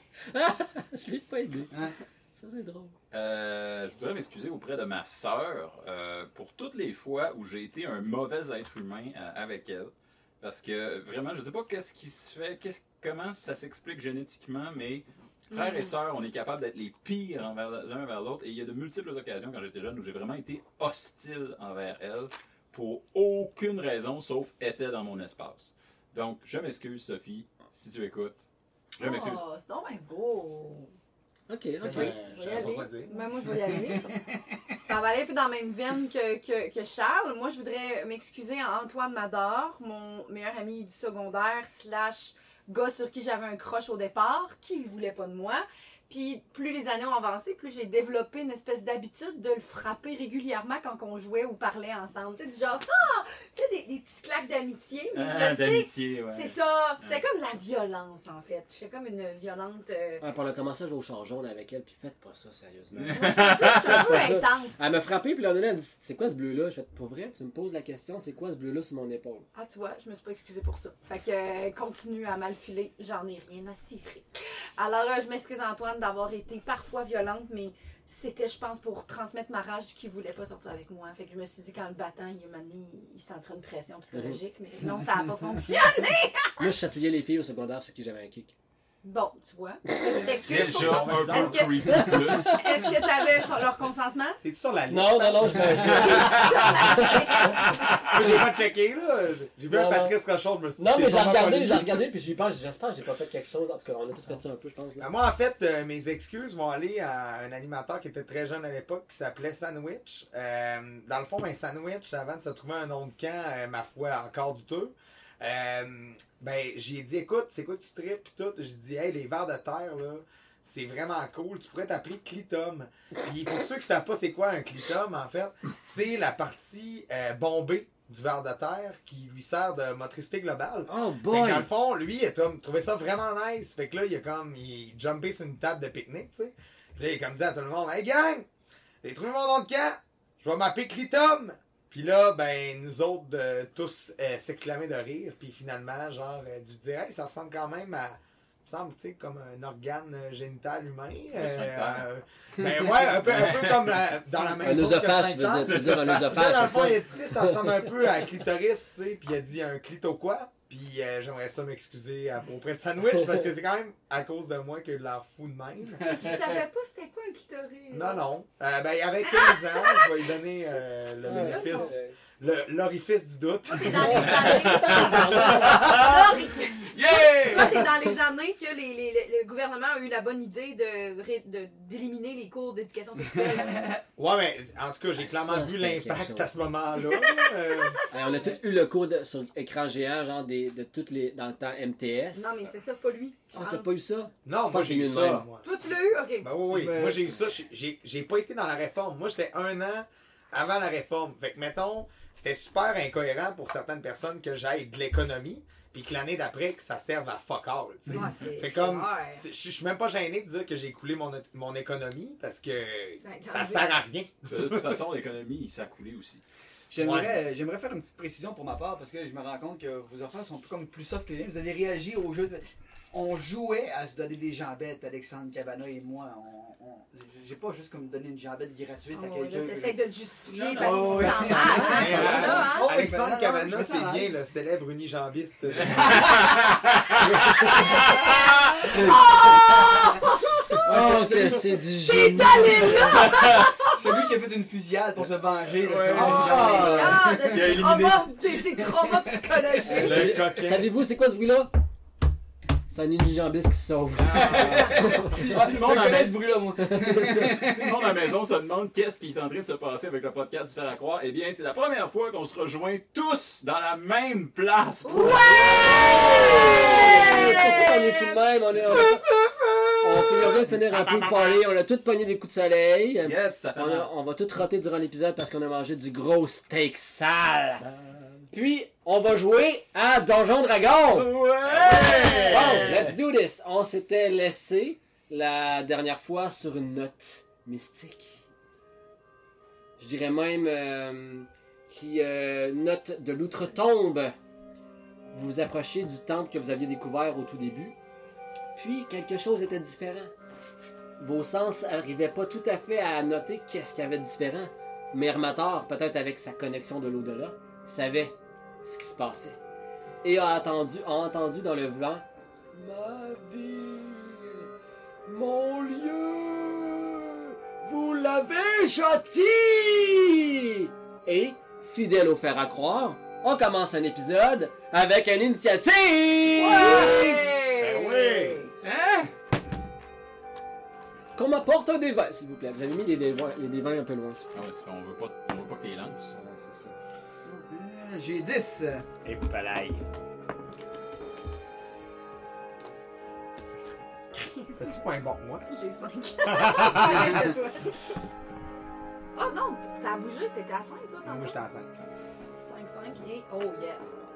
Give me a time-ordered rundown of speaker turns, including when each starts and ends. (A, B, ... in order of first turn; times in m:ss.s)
0:00.3-0:01.7 A
0:02.4-0:02.9 A
0:03.1-0:28.4 B
0:15.5-0:15.9 C
0:29.0-0:29.4 B
0:29.0-0:30.9 C
0:31.5-0:32.2 A
0:31.8-0:33.2 D
0:31.9-0:34.3 C
0:33.6-0:34.4 E
0:34.8-1:00.2 C
0:55.1-0:57.2 B
1:00.2-1:09.5 A
1:03.0-1:04.3 B
1:03.1-1:04.8 C
1:09.5-1:26.7 C
1:26.6-1:28.5 A
1:29.0-1:34.4 C
1:30.1-1:31.7 D
1:30.4-1:32.6 B
1:31.8-1:32.9 A
1:34.4-1:36.4 D
1:34.9-1:37.5 A
1:36.0-1:37.8 C
1:36.1-1:36.9 B
1:37.0-1:42.0 D
1:37.7-1:38.2 B
1:39.7-1:40.2 A
1:40.8-1:45.1 A
1:45.0-2:18.5 D
2:10.9-2:11.7 A
2:19.0-2:46.2 D
2:31.3-2:32.0 B
2:33.2-2:33.9 B
2:34.6-2:37.6 A
2:35.7-2:36.1 B
2:46.1-2:48.2 C
2:47.9-2:54.8 D
2:49.2-2:50.3 C
2:51.2-2:52.1 A
2:51.3-2:52.0 C
2:53.7-3:04.0 C
2:54.0-2:55.9 A
2:54.5-2:56.4 B
2:55.3-2:56.0 D
2:56.9-2:57.9 B
3:04.2-3:08.0 D
3:05.2-3:06.5 A
3:07.1-3:07.9 C
3:08.1-3:12.6 A
3:12.4-3:13.9 C
3:13.5-3:15.5 A
3:14.4-3:15.7 D
3:15.6-3:16.6 C
3:16.4-3:35.0 D
3:16.7-3:17.2 E
3:28.1-3:29.4 C
3:33.2-3:33.9 C
3:34.5-3:36.4 B
3:36.9-3:50.0 E
3:37.0-3:37.4 D
3:49.1-3:53.1 C
3:50.6-3:51.7 B
3:50.7-3:54.3 E
3:51.0-3:52.6 A
3:51.9-3:56.7 D
3:55.7-3:58.5 B
3:58.8-4:00.9 C
4:00.8-4:01.8 E
4:00.8-4:03.2 A
4:02.0-4:04.3 C
4:02.9-4:03.7 B
4:03.8-4:07.9 E
4:05.7-4:08.3 B
4:06.1-4:07.1 D
4:06.4-4:10.4 C
4:09.8-4:10.2 E
4:09.9-4:11.7 A
4:09.9-4:10.9 D
4:12.9-4:15.6 A
4:14.2-4:16.6 B
4:14.3-4:18.0 E
4:16.8-4:17.6 A
4:17.2-4:26.6 B
4:25.0-4:30.6 C
4:25.2-4:29.2 A
4:30.0-4:37.8 A
4:33.2-4:34.1 B
4:37.8-4:38.4 B
4:38.5-4:41.3 A
4:41.1-4:43.2 B
4:41.6-4:43.0 D
4:42.2-4:48.4 A
4:50.0-4:54.3 A
4:55.3-4:58.0 A
4:58.7-5:00.3 A
5:01.2-5:09.6 A
5:10.2-5:14.7 A
5:15.2-5:27.2 A
5:26.5-5:28.7 C
5:27.8-5:28.6 D
5:28.8-5:29.3 B
5:31.4-5:34.4 A
5:34.5-5:36.3 B
5:36.3-5:36.9 A
5:37.4-5:39.0 E
5:39.2-5:40.0 D
5:44.4-5:44.8 C
5:44.7-5:45.7 D
5:45.6-5:48.0 C
5:46.4-5:47.5 D
5:49.3-5:51.6 C
5:51.2-5:51.9 D
5:52.5-5:54.2 C